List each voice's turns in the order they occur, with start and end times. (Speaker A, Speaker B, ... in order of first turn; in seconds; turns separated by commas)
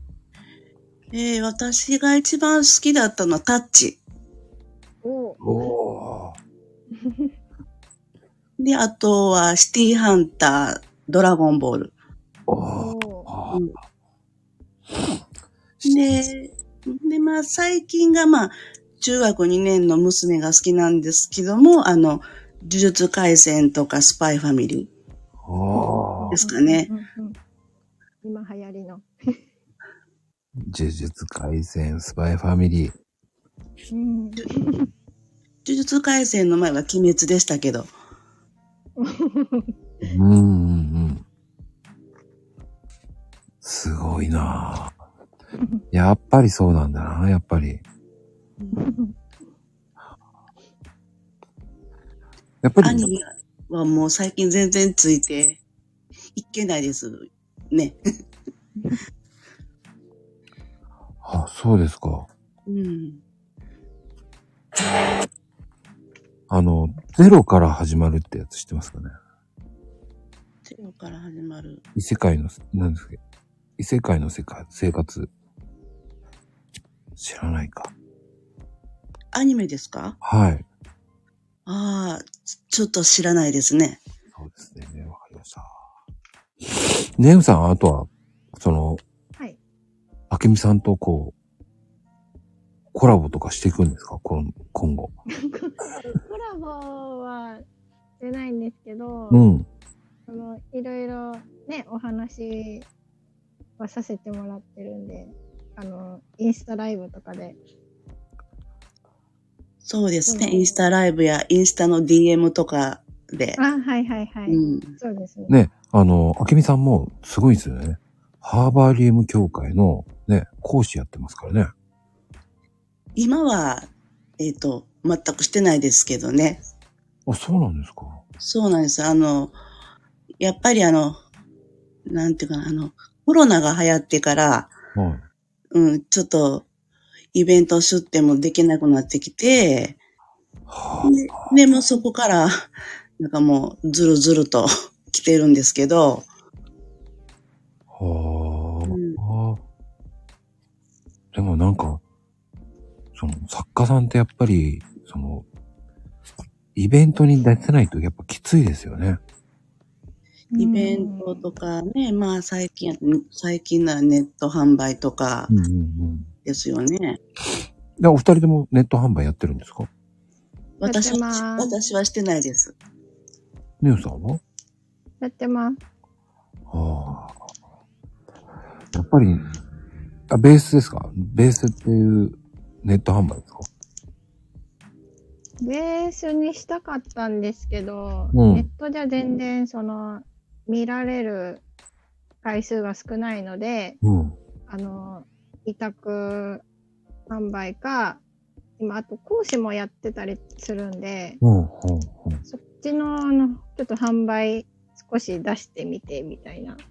Speaker A: 1.1-4.0, Speaker B: 5.0-5.4, Speaker C: 5.4-6.4, Speaker B: 7.0-7.3, Speaker A: 8.6-11.9, Speaker C: 12.5-13.8, Speaker B: 12.7-13.3, Speaker A: 15.8-24.9, Speaker C: 25.4-26.4, Speaker B: 26.1-27.4, Speaker A: 26.3-26.9, Speaker B: 28.2-29.4, Speaker C: 30.6-33.0, Speaker B: 33.9-34.9, Speaker A: 35.6-37.9, Speaker B: 39.0-39.7, Speaker C: 40.0-41.2, Speaker C: 43.6-45.0, Speaker C: 45.9-47.8, Speaker B: 48.7-49.1, Speaker C: 52.6-53.1, Speaker A: 52.8-55.6, Speaker A: 56.4-58.0, Speaker C: 61.2-62.3, Speaker A: 62.7-63.2, Speaker C: 66.5-69.1, Speaker A: 70.7-71.8, Speaker C: 72.0-73.2, Speaker C: 73.8-75.3, Speaker C: 77.2-77.9, Speaker A: 79.3-80.2, Speaker C: 80.2-80.7, Speaker A: 81.7-84.0, Speaker C: 84.3-85.7, Speaker C: 86.7-89.0, Speaker C: 90.3-91.3, Speaker C: 92.9-95.1, Speaker B: 95.4-97.6, Speaker B: 98.2-99.5, Speaker C: 99.3-99.7, Speaker B: 100.3-102.9, Speaker B: 103.8-107.6, Speaker A: 109.8-113.6, Speaker B: 110.3-110.8, Speaker B: 113.6-115.6, Speaker A: 114.5-115.0, Speaker C: 115.5-121.7, Speaker A: 123.2-126.6, Speaker C: 127.3-128.2, Speaker A: 128.4-129.5, Speaker A: 130.4-131.2, Speaker A: 132.1-134.7, Speaker C: 135.0-135.2, Speaker A: 135.7-136.7, Speaker A: 137.3-140.0, Speaker C: 140.7-141.5, Speaker A: 141.0-146.3, Speaker C: 147.9-149.6, Speaker A: 148.9-149.2, Speaker C: 151.3-152.0, Speaker C: 153.2-155.4, Speaker C: 156.8-159.2, Speaker B: 160.5-161.4, Speaker A: 160.6-165.5, Speaker C: 165.5-166.3, Speaker A: 166.4-167.2, Speaker C: 168.0-169.9, Speaker A: 170.8-172.7, Speaker B: 170.8-171.7, Speaker C: 173.8-174.4, Speaker B: 175.2-175.8, Speaker C: 176.7-177.4, Speaker C: 178.9-179.4, Speaker C: 180.3-183.7, Speaker B: 185.6-191.6, Speaker C: 188.3-188.7, Speaker B: 192.4-194.0, Speaker C: 194.0-194.4, Speaker B: 194.7-196.6, Speaker B: 197.3-198.2, Speaker B: 198.8-201.4, Speaker C: 201.4-202.4, Speaker B: 202.5-206.8